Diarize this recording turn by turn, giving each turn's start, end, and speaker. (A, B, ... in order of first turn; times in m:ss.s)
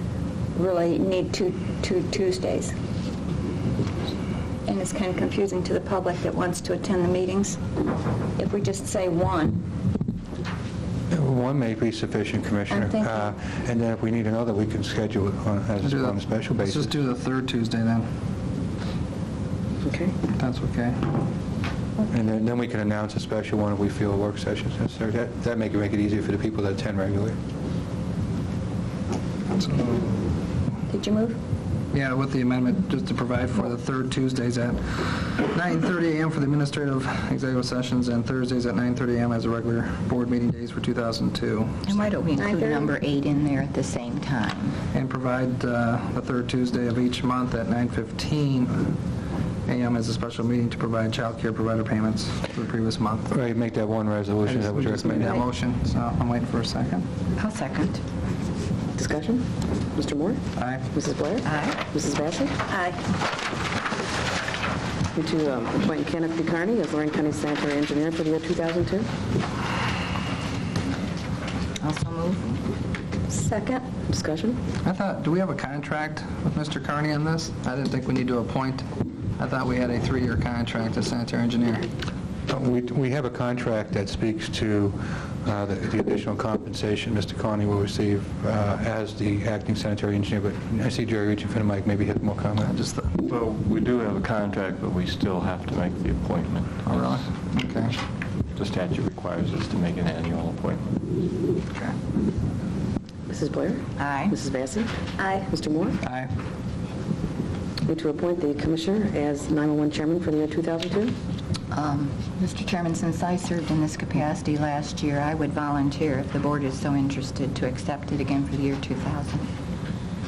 0:00.6-0:02.7 A
0:04.7-0:07.6 A
0:08.4-0:09.7 A
0:11.1-0:17.0 B
0:12.7-0:13.4 A
0:15.8-0:18.1 C
0:19.8-0:20.2 D
0:20.3-0:21.0 C
0:22.1-0:27.4 B
0:29.5-0:30.2 C
0:30.9-0:31.4 A
0:31.9-0:41.9 C
0:41.9-0:44.8 E
0:42.4-0:42.9 A
0:44.9-0:48.9 C
0:49.7-0:53.3 C
0:53.3-0:55.4 B
0:54.4-0:57.1 C
0:57.4-0:58.0 E
0:59.0-1:00.4 D
1:00.6-1:00.9 C
1:00.9-1:02.6 D
1:01.4-1:01.8 E
1:02.7-1:03.0 A
1:05.2-1:09.1 D
1:11.8-1:12.6 E
1:13.3-1:13.8 A
1:14.1-1:14.6 D
1:14.8-1:21.9 C
1:22.5-1:32.8 B
1:32.6-1:33.3 C
1:33.3-1:36.7 F
1:36.8-1:38.0 C
1:38.6-1:41.0 F
1:43.3-1:44.9 D
1:44.0-1:44.4 E
1:45.2-1:45.5 A
1:45.5-1:46.0 D
1:46.0-1:46.3 C
1:47.9-1:51.2 D
1:51.7-1:59.5 E